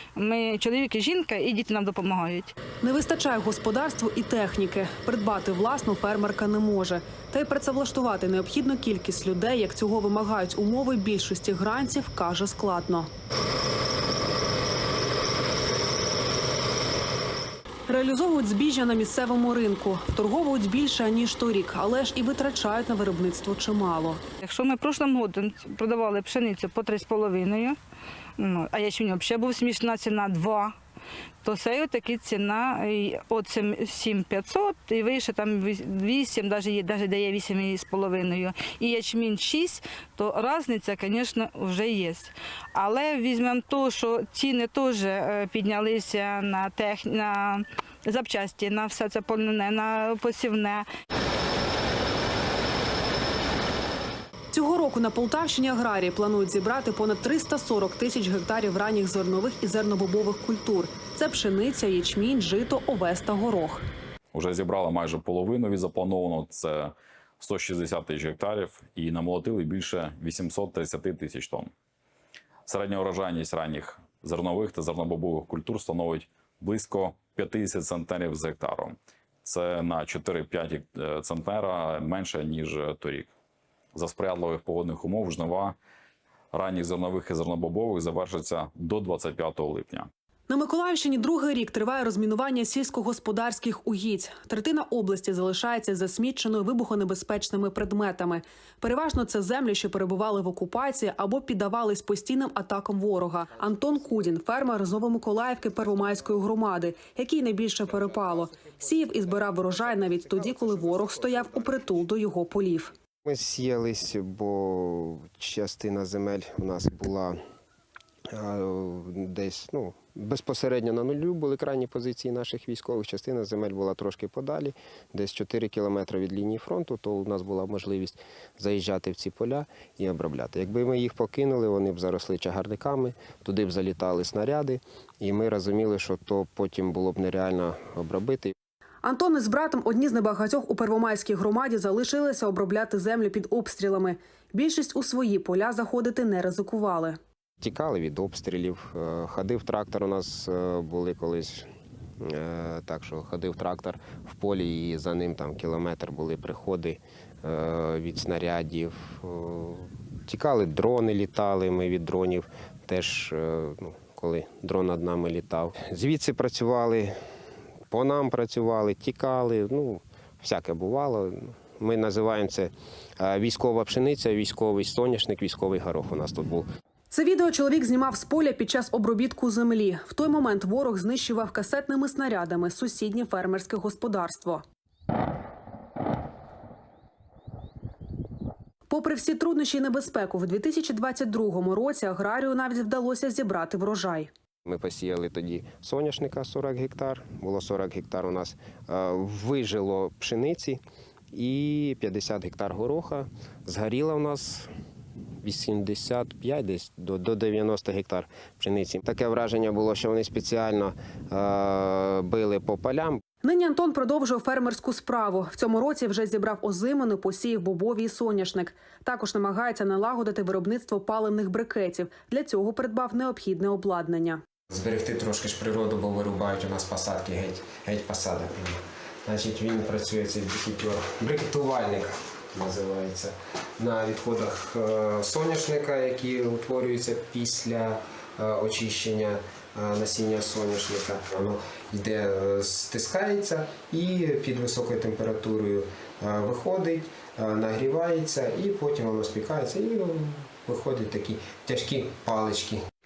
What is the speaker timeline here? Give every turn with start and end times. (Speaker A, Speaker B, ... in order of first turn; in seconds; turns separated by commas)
Speaker A: 0.2-2.5, Speaker B: 2.8-13.1, Speaker B: 17.9-24.2, Speaker A: 24.4-27.8, Speaker A: 28.4-30.8, Speaker A: 31.4-50.9, Speaker B: 54.5-63.9, Speaker C: 64.3-71.7, Speaker C: 72.7-83.3, Speaker C: 83.9-85.8, Speaker C: 86.5-90.1, Speaker B: 90.5-112.9, Speaker D: 113.2-117.4, Speaker D: 118.3-138.5, Speaker B: 139.0-147.2, Speaker D: 147.6-151.7, Speaker D: 152.2-167.1, Speaker D: 167.9-176.7, Speaker B: 177.1-184.6, Speaker B: 188.9-194.3, Speaker D: 194.7-200.8, Speaker D: 201.3-204.7, Speaker D: 205.4-213.2, Speaker B: 213.4-224.4, Speaker D: 224.7-252.8